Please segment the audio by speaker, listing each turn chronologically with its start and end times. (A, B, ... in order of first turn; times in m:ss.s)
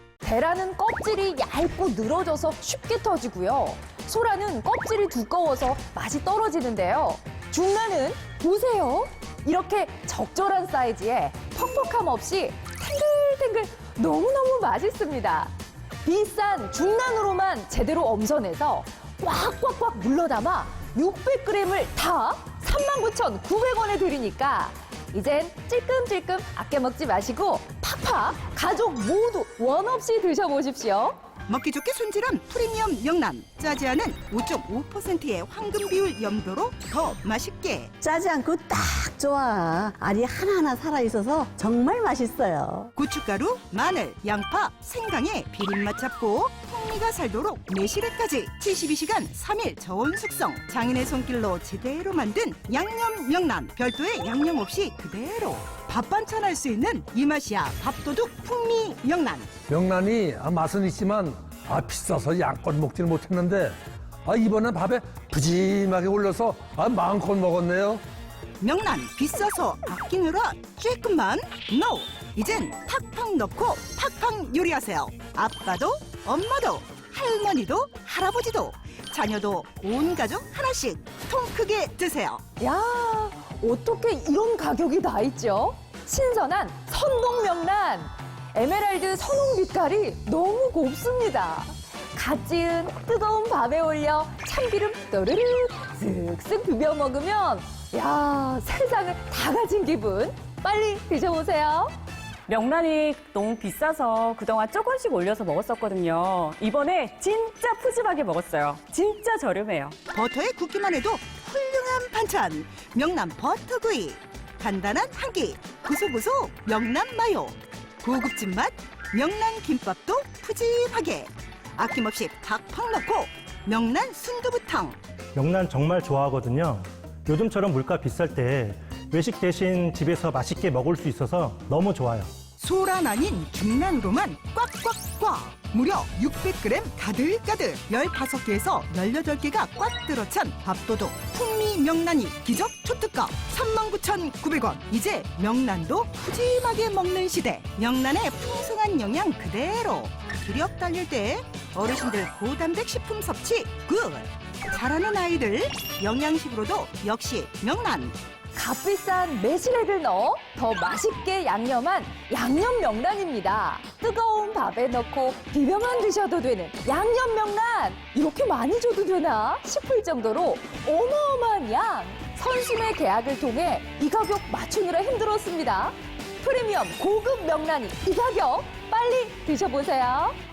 0:00.2-0:15.5 A
0:16.0-0:31.2 A
0:31.5-0:37.9 B
0:38.0-0:42.9 C
0:42.9-0:59.5 B
0:59.7-1:08.0 D
1:08.6-1:22.4 B
1:22.6-1:41.9 A
1:42.5-1:50.0 E
1:50.1-2:05.0 B
2:05.3-2:12.3 F
2:12.6-2:38.2 B
2:38.5-3:00.4 A